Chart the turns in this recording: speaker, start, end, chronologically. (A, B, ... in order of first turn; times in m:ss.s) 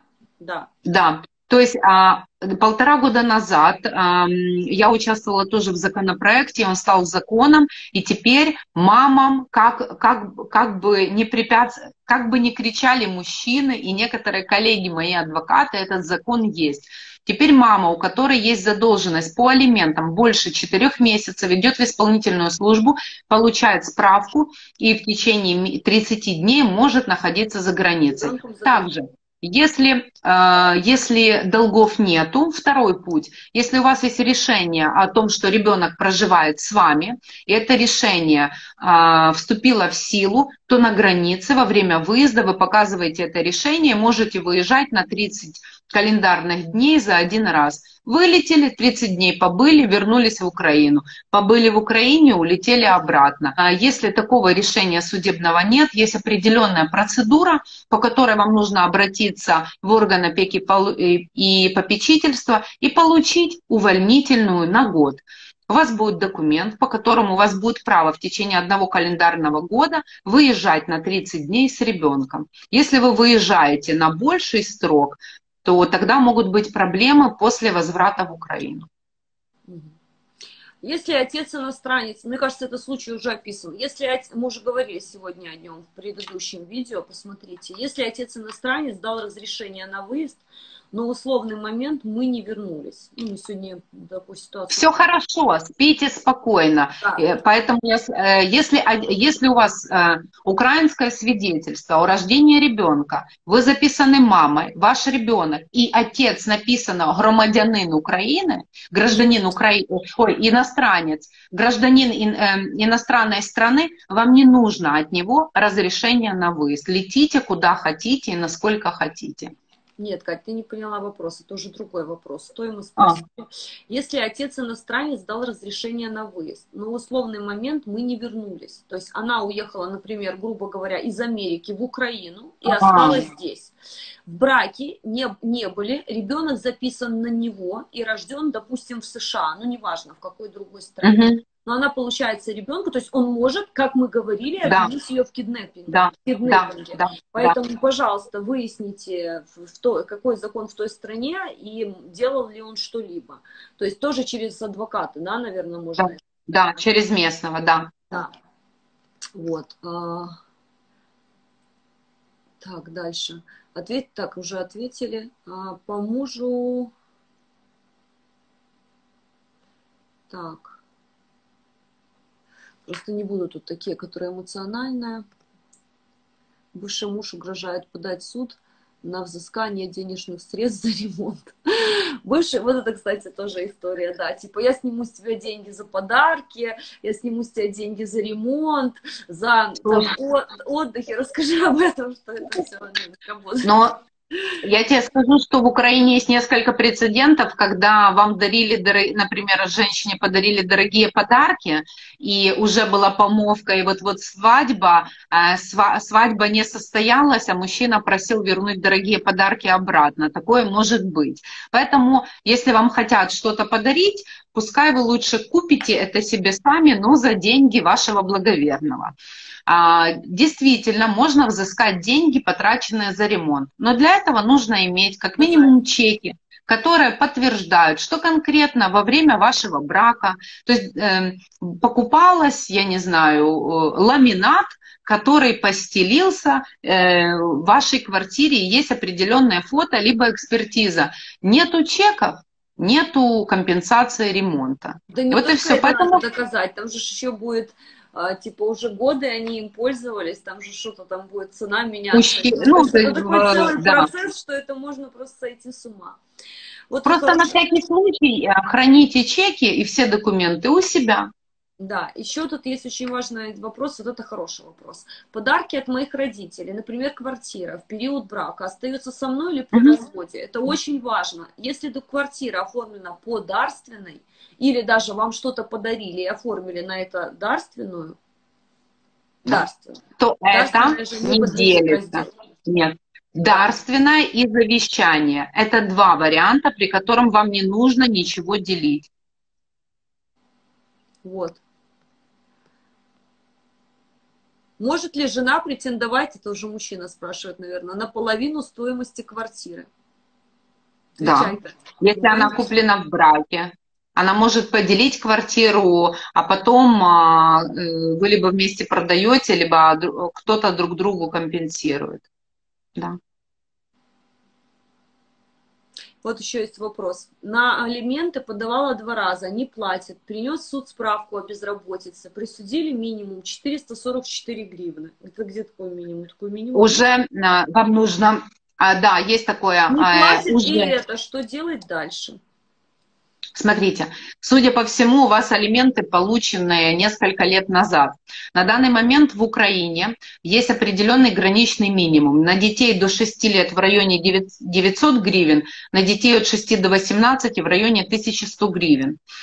0:00.4-0:00.7 A
0:00.9-1:18.9 B
0:28.1-0:28.9 A
1:19.7-1:19.9 A
1:20.8-1:35.0 A
1:34.7-1:59.5 B
2:00.0-2:13.7 A
2:12.7-2:13.2 B
2:14.3-2:36.2 A
2:21.0-2:21.4 B
2:24.6-2:24.9 B
2:25.9-2:27.6 B
2:36.0-2:37.9 B
2:39.4-2:40.4 A
2:42.6-2:46.9 A
2:50.3-2:50.8 A
2:52.9-2:55.2 A
2:56.7-3:13.8 A
3:09.8-3:10.1 B
3:13.6-3:14.0 B
3:14.6-3:39.1 B
3:39.7-4:06.2 B
3:45.4-3:45.7 A
4:05.1-4:16.2 A
4:12.1-4:14.1 B
4:16.9-4:17.6 A
4:17.0-4:21.3 B
4:21.8-4:38.2 A
4:39.4-4:42.3 A
4:40.2-4:49.1 B
4:51.2-4:51.6 A
4:54.8-4:59.9 A
5:01.2-5:02.7 A
5:01.2-5:12.2 B
5:16.2-5:27.0 A
5:26.8-5:30.9 B
5:29.9-5:32.4 A
5:33.6-5:49.2 B